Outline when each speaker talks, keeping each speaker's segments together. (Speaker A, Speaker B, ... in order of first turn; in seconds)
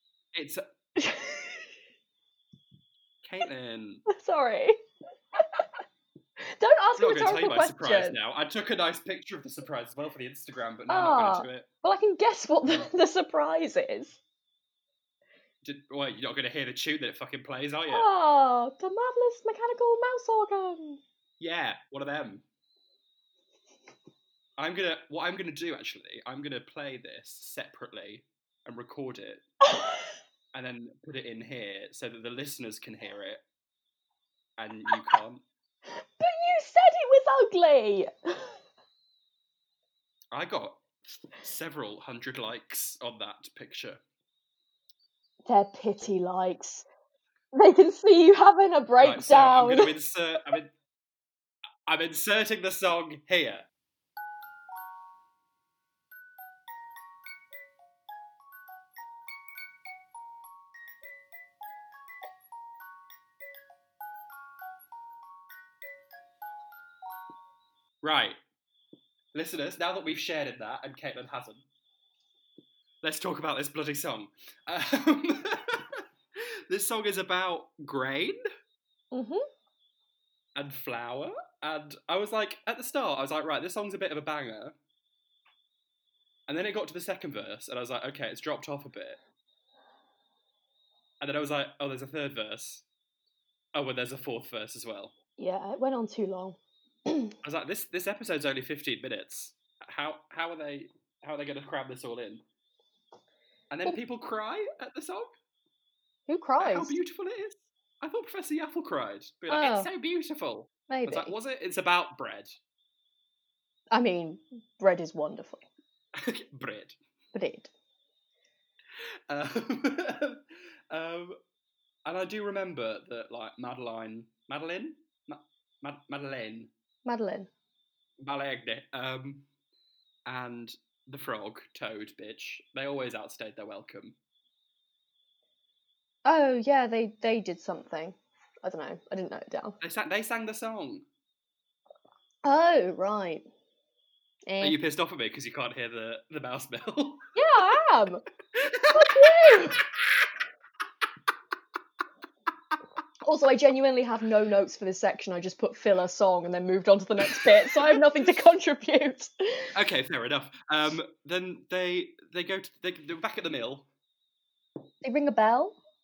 Speaker A: 0.3-0.6, 3.2-4.0, 7.0-11.7, 15.6-18.1, 21.4-22.4, 24.6-29.4, 30.5-33.4, 34.6-35.4, 40.3-44.0, 49.0-50.7, 51.9-53.7, 68.0-68.4, 69.3-71.7, 73.0-76.0, 76.7-78.4, 80.6-84.8, 86.5-89.2, 91.2-92.8, 93.7-95.1, 97.4-102.4, 103.7-105.4, 106.6-112.5, 116.2-117.0, 119.3-121.4, 122.1-126.7, 128.2-129.5, 130.3-134.2, 139.8-141.1, 144.6-147.3, 148.5-150.3, 157.2-158.0, 159.7-163.9
Speaker B: 1.0-1.7, 4.1-4.8, 5.3-5.7, 6.4-8.2, 10.9-14.2, 17.9-21.0, 29.7-30.0, 35.9-38.5, 45.5-46.9, 47.5-49.9, 79.1-79.4, 95.4-97.3, 106.3-106.9, 109.5-109.9, 110.9-111.3, 113.9-115.7, 117.3-117.7, 127.0-127.5, 136.2-139.8, 142.4-143.4, 144.5-144.8, 147.3-148.2, 148.9-149.8, 153.2-159.7, 165.0-165.8